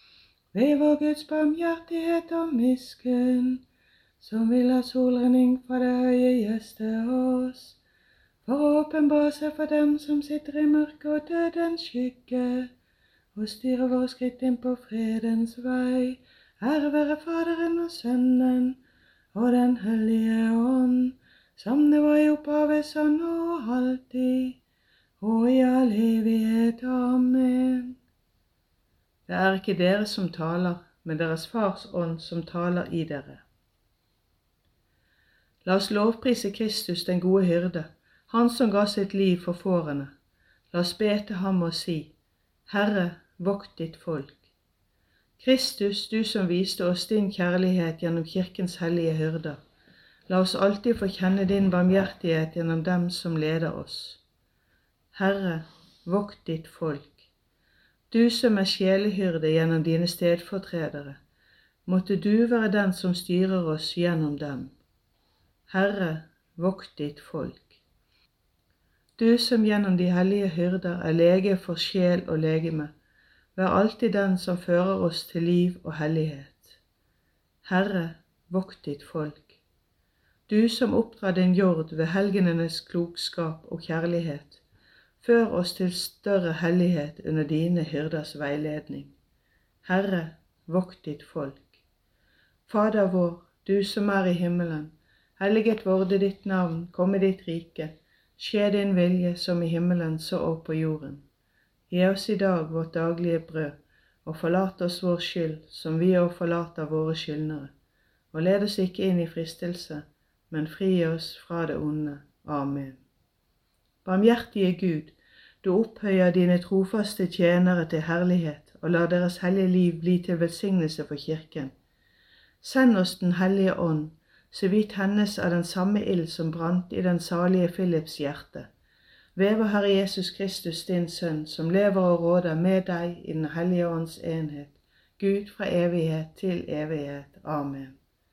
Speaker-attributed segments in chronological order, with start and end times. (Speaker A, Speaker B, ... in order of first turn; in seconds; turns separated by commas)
Speaker A: 0.5-3.6, Speaker A: 4.2-7.8, Speaker A: 8.4-12.7, Speaker A: 13.3-18.8, Speaker A: 19.3-24.6, Speaker A: 25.2-28.0, Speaker A: 29.3-33.4, Speaker A: 35.6-40.1, Speaker A: 40.7-42.1, Speaker A: 42.7-44.5, Speaker A: 45.4-49.6, Speaker A: 50.3-54.2, Speaker A: 55.1-57.3, Speaker A: 58.1-61.2, Speaker A: 61.9-64.8, Speaker A: 65.7-67.8, Speaker A: 69.2-72.9, Speaker A: 73.5-76.8, Speaker A: 77.6-79.6, Speaker A: 80.5-84.6, Speaker A: 85.2-89.1, Speaker A: 89.8-91.8, Speaker A: 92.7-101.2, Speaker A: 101.9-107.7, Speaker A: 108.3-113.0, Speaker A: 114.0-121.7, Speaker A: 122.6-128.7, Speaker A: 129.3-138.0